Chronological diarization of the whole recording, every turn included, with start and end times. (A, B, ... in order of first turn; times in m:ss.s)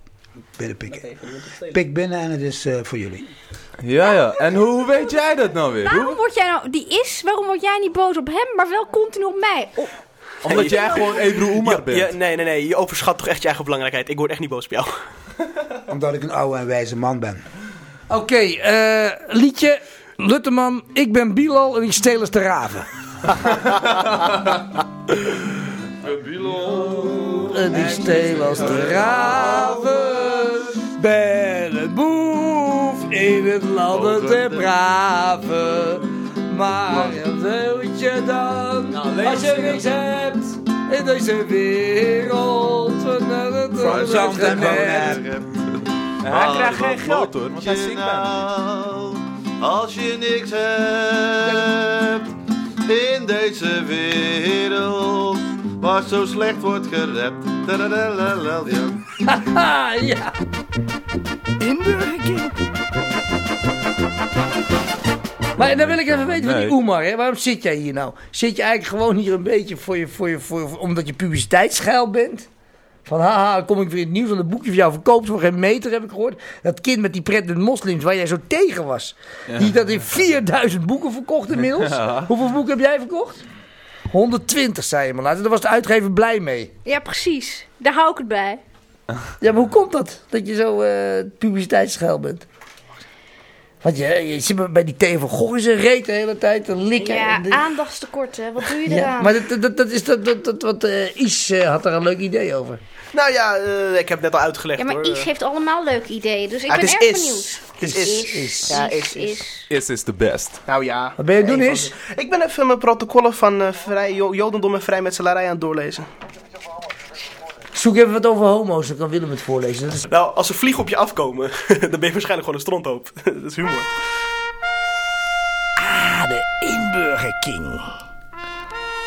0:00.6-0:01.1 A
0:00.9-0:01.8 B
0:01.7-0:03.3 A
0:03.8-0:06.2 C
0:05.8-0:09.9 D
0:10.4-0:12.1 C
0:10.4-0:15.0 B
0:10.5-0:11.2 D
0:15.9-0:17.4 A
0:18.1-0:22.9 E
0:26.0-0:29.8 F
0:27.5-0:45.2 E
0:27.7-0:29.6 C
0:33.9-0:34.7 F
0:38.9-0:40.0 C
0:43.8-0:45.3 A
0:43.8-0:45.5 F
0:46.2-0:48.4 C
0:46.2-0:52.3 F
0:52.8-0:59.0 F
0:59.2-1:00.4 E
1:01.6-1:02.6 E
1:05.6-1:12.5 E
1:05.6-1:06.7 C
1:13.0-1:23.4 E
1:19.5-1:19.7 C
1:21.7-1:22.3 C
1:24.1-1:26.7 E
1:26.8-1:28.6 D
1:29.4-1:32.4 E
1:33.8-1:37.7 E
1:37.0-1:39.3 D
1:38.8-1:42.8 E
1:43.1-1:45.3 B
1:44.8-1:49.6 D
1:46.7-1:49.4 B
1:47.8-1:48.8 E
1:49.7-1:50.6 C
1:50.7-1:56.1 B
1:51.2-1:51.9 E
1:57.7-2:00.0 E
2:00.0-2:03.9 B
2:05.8-2:07.9 E